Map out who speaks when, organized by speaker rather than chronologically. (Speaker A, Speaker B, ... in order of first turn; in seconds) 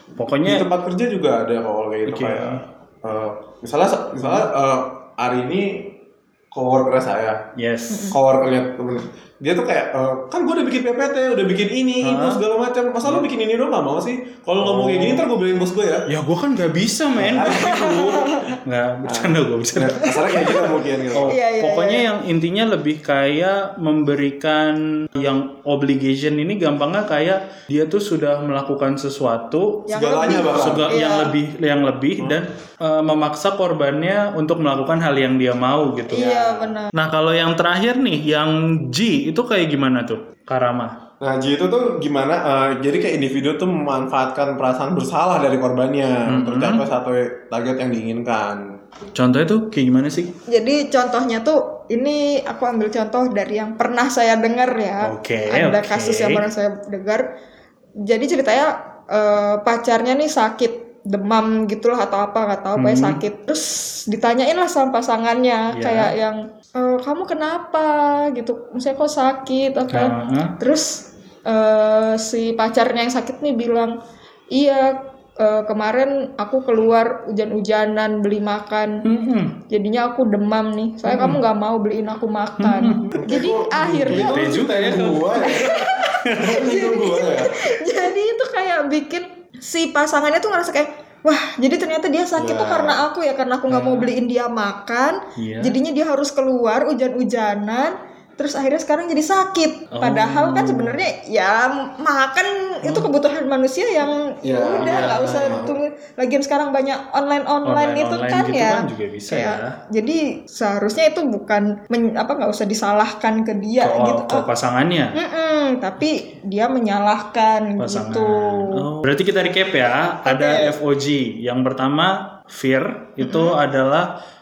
Speaker A: 0.2-0.7, 2.1-2.6, 4.2-4.5, 7.6-8.1, 12.0-12.4, 14.6-15.3, 16.1-40.9, 46.3-46.8, 49.1-50.3, 55.0-56.4, 62.8-63.2, 65.7-66.1, 69.9-70.5, 79.0-79.5, 81.0-81.4, 82.6-83.1, 83.9-86.6, 93.7-94.1, 95.4-95.8, 99.9-101.0, 104.8-105.7, 107.6-109.8, 113.8-115.2, 117.8-124.1
Speaker B: 0.4-5.9, 6.5-7.4, 8.1-16.1, 17.2-18.2, 19.0-21.3, 29.9-30.9, 41.2-48.6, 83.1-87.5, 92.3-93.0, 104.4-105.8
Speaker C: 7.9-8.2, 17.5-18.5, 21.3-22.0, 29.9-31.3, 36.1-36.9, 50.5-57.3, 58.0-73.9, 74.5-79.0, 79.7-84.5, 85.4-114.4, 115.1-118.8, 120.2-120.7, 123.2-123.6